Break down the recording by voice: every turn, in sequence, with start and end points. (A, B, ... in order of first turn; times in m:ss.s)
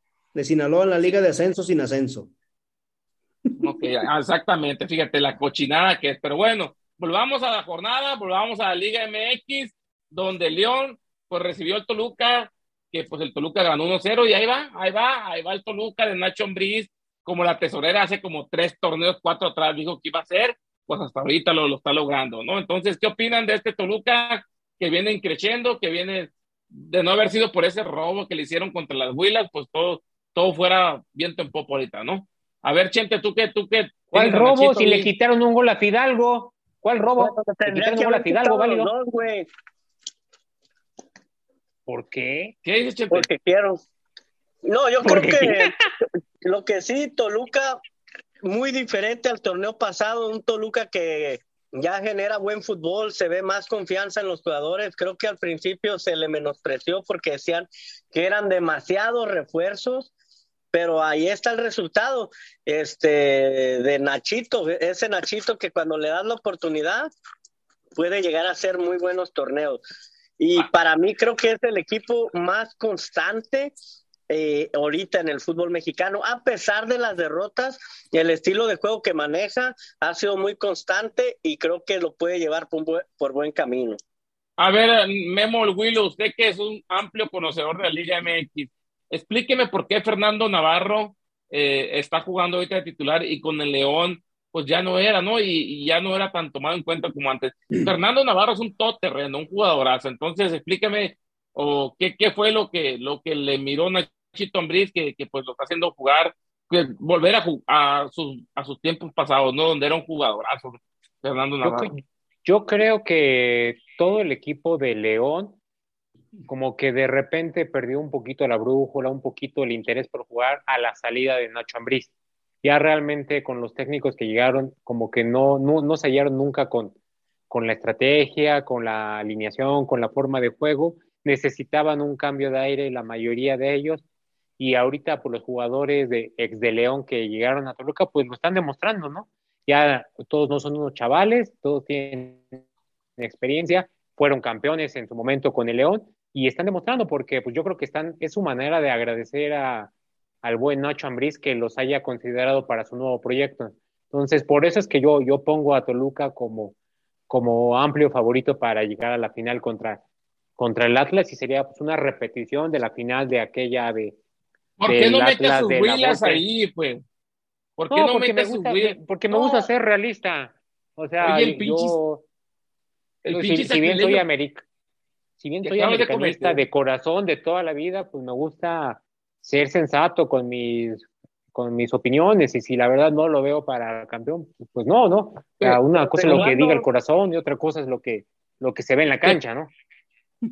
0:00.3-0:02.3 A
0:03.6-0:35.1 B
0:34.1-0:38.9 C
0:37.2-0:39.5 D
0:41.9-0:42.5 C
0:42.6-0:43.3 B
0:43.1-0:43.8 D
0:44.6-0:47.8 D
0:45.0-0:45.7 C
0:48.4-1:00.1 D
1:00.7-1:07.1 D
1:08.0-1:09.8 D
1:10.4-1:13.7 D
1:14.3-1:24.0 D
1:24.6-1:51.9 B
1:51.6-1:55.6 C
1:56.5-2:02.1 C
2:02.6-2:06.9 C
2:07.5-2:14.0 C
2:14.6-2:22.4 C
2:23.2-2:29.9 C
2:30.4-2:36.7 C
2:37.3-2:40.0 C
2:40.6-2:44.2 C
2:44.8-2:47.0 B
2:44.9-2:46.4 C
2:47.8-2:49.7 B
2:47.9-2:52.2 C
2:51.2-2:52.0 B
2:53.2-2:54.2 B
2:53.3-2:54.6 C
2:55.4-3:09.7 C
2:55.6-2:56.6 B
3:05.6-3:06.4 B
3:06.0-3:06.9 D